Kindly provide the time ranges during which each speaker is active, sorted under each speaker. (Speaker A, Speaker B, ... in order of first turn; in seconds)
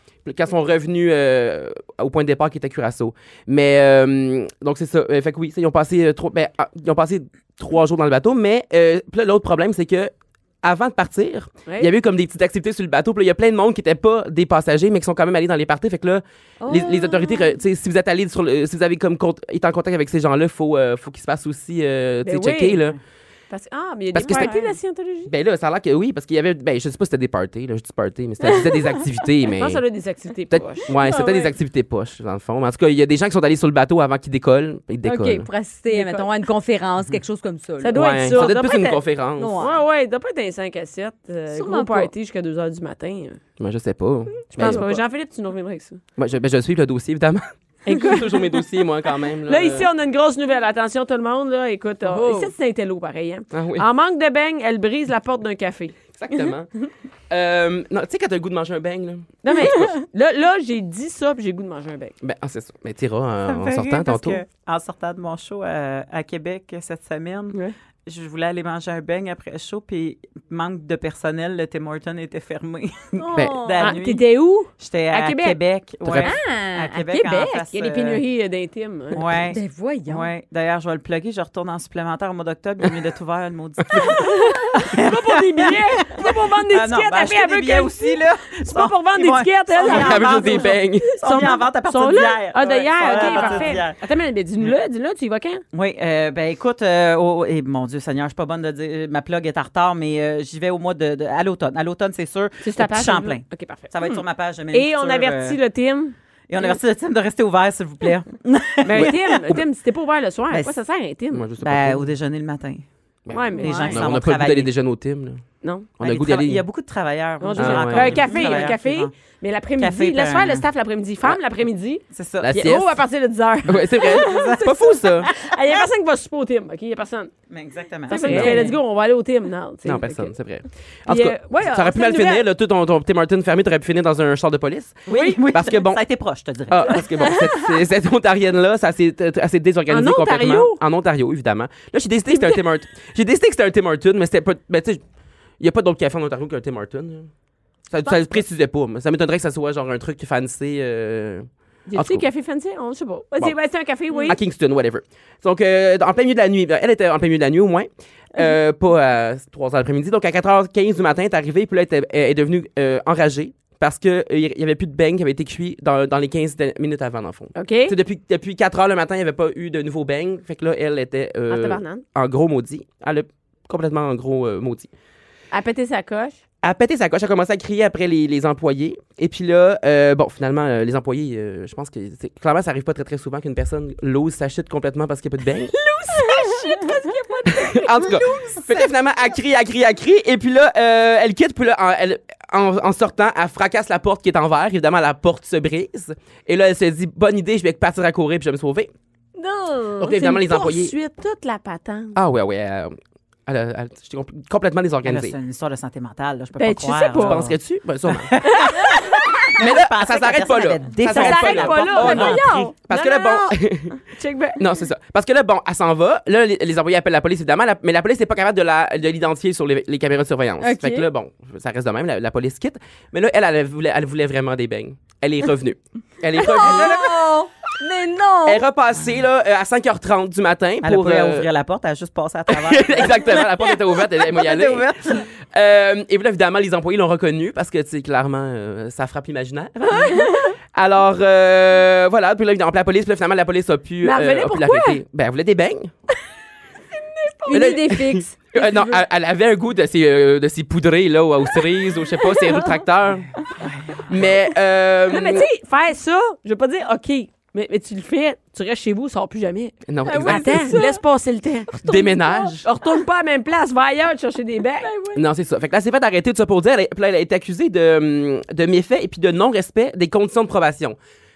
Speaker A: 0.2-23.0, 24.1-24.6, 25.3-29.8, 30.5-35.5, 37.9-39.6, 43.6-45.0, 46.2-49.9, 53.5-53.8, 56.1-56.7, 57.3-59.9, 62.2-64.4, 76.0-76.3, 89.8-91.2, 111.3-112.1, 113.2-115.4, 116.0-116.6, 117.5-118.3, 122.4-123.0, 123.6-125.3, 128.1-128.7, 129.8-136.0, 136.7-145.0, 145.6-147.3, 147.9-152.2, 154.2-174.9, 176.6-185.7, 187.5-198.9, 200.0-200.9, 202.1-205.3, 207.2-208.3, 209.6-214.0, 214.6-227.0, 228.4-231.5, 232.5-245.9, 247.5-253.4, 254.1-255.4, 259.9-260.8, 261.8-262.6, 265.1-270.9
Speaker B: 16.6-17.5, 24.2-24.7, 31.0-31.4, 35.0-38.5, 39.4-39.8, 41.5-42.1, 44.6-44.9, 52.0-52.5, 73.2-73.9, 76.2-77.7, 79.3-80.3, 93.2-93.8, 113.6-113.9, 118.4-118.7, 128.2-128.7, 154.1-154.3, 186.4-187.4, 211.1-213.2, 220.6-221.1, 226.4-228.6, 247.3-249.0, 260.0-261.0, 261.7-262.6, 264.8-265.2
Speaker C: 22.2-22.9, 23.5-25.3, 29.5-31.5, 35.9-36.3, 37.8-39.0, 39.6-43.4, 44.5-46.0, 47.8-48.6, 49.5-56.0, 59.4-62.1, 73.7-75.6, 77.7-79.2, 84.0-95.6, 102.6-104.2, 104.7-106.7, 108.8-111.5, 113.3-114.0, 115.6-115.9, 117.4-127.3, 128.1-130.3, 131.1-132.4, 135.1-135.4, 137.2-137.6, 139.9-140.8, 142.3-142.6, 151.9-154.4, 167.5-167.9, 171.5-172.0, 175.5-176.4, 185.7-188.6, 199.4-202.1, 206.6-207.5, 208.5-208.9, 211.0-214.6, 239.8-240.5, 244.0-245.0, 247.0-247.9, 255.1-261.9, 262.6-264.9
Speaker D: 63.5-74.2, 74.8-78.2, 79.1-94.0, 95.7-105.6, 106.5-109.6, 110.5-110.8, 111.6-112.8, 113.6-114.7, 116.0-119.1, 119.8-120.7, 122.1-122.6, 124.0-125.5, 127.5-128.7, 135.1-137.1, 188.2-188.9, 205.0-212.5, 230.8-235.3, 253.6-254.2